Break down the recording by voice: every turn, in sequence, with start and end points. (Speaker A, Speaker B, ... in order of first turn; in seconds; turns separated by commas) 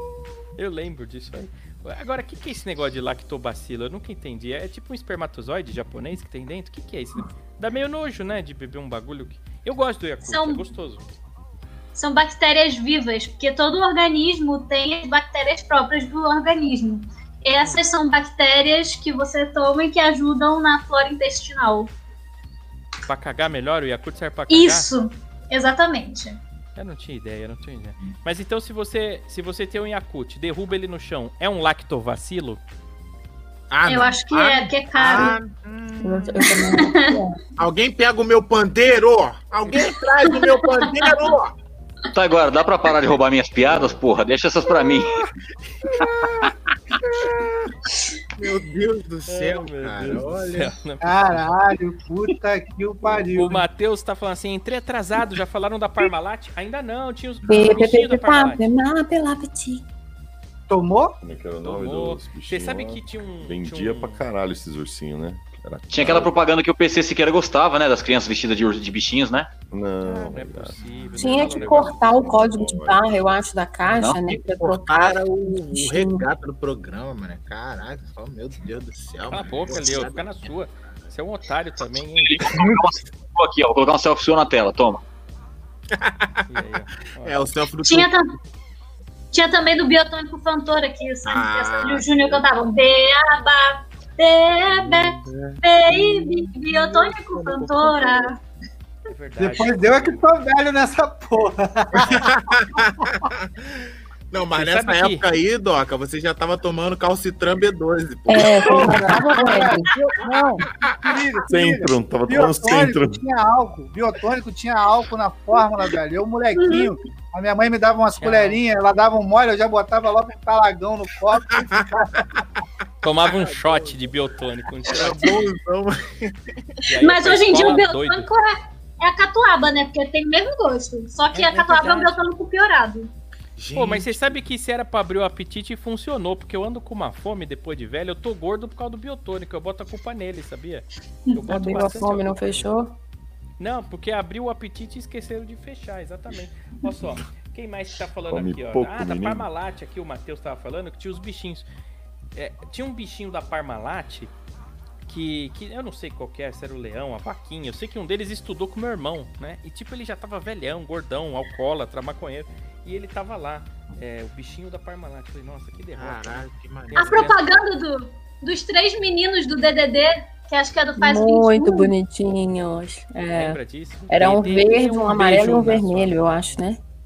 Speaker A: 0.6-11.1, Speaker B: 10.2-10.6, Speaker B: 11.9-21.9, Speaker A: 23.1-24.9, Speaker B: 24.5-26.4, Speaker A: 26.8-32.6, Speaker C: 33.7-36.6, Speaker B: 33.9-35.4, Speaker D: 36.0-37.4, Speaker B: 36.8-37.1, Speaker C: 37.6-41.5, Speaker B: 40.2-41.2, Speaker E: 42.1-45.2, Speaker C: 45.8-47.7, Speaker C: 48.3-50.7, Speaker A: 49.3-51.5, Speaker F: 51.0-53.6, Speaker G: 53.0-53.3, Speaker A: 53.3-58.7, Speaker C: 57.4-57.9, Speaker D: 57.5-59.8, Speaker F: 60.7-61.2, Speaker G: 61.2-66.3, Speaker A: 61.6-64.2, Speaker E: 65.9-69.5, Speaker G: 69.7-73.1, Speaker A: 70.0-72.0, Speaker D: 71.2-76.3, Speaker E: 73.9-74.2, Speaker C: 74.4-80.4, Speaker A: 79.3-82.5, Speaker E: 82.3-85.0, Speaker C: 85.9-86.5, Speaker A: 86.5-87.5, Speaker C: 87.2-88.2, Speaker B: 87.8-88.3, Speaker B: 89.3-98.4, Speaker C: 91.2-92.4, Speaker C: 94.8-98.3, Speaker A: 99.1-100.2, Speaker F: 99.4-102.3, Speaker C: 102.0-109.2, Speaker A: 104.5-105.2, Speaker D: 108.3-109.9, Speaker F: 108.6-122.4, Speaker C: 110.8-111.1, Speaker G: 111.5-113.2, Speaker B: 116.5-116.9, Speaker A: 118.2-118.6, Speaker A: 123.0-125.4, Speaker C: 123.2-124.0, Speaker C: 124.8-126.5, Speaker A: 126.8-128.3, Speaker B: 127.0-133.1, Speaker A: 131.3-132.2, Speaker C: 133.6-134.4, Speaker A: 133.7-142.7, Speaker D: 141.5-142.9, Speaker A: 143.6-151.6, Speaker G: 148.3-149.4, Speaker A: 152.3-154.3, Speaker A: 155.1-167.4, Speaker C: 165.9-167.3, Speaker B: 166.9-171.9, Speaker D: 171.0-176.8, Speaker A: 173.3-176.4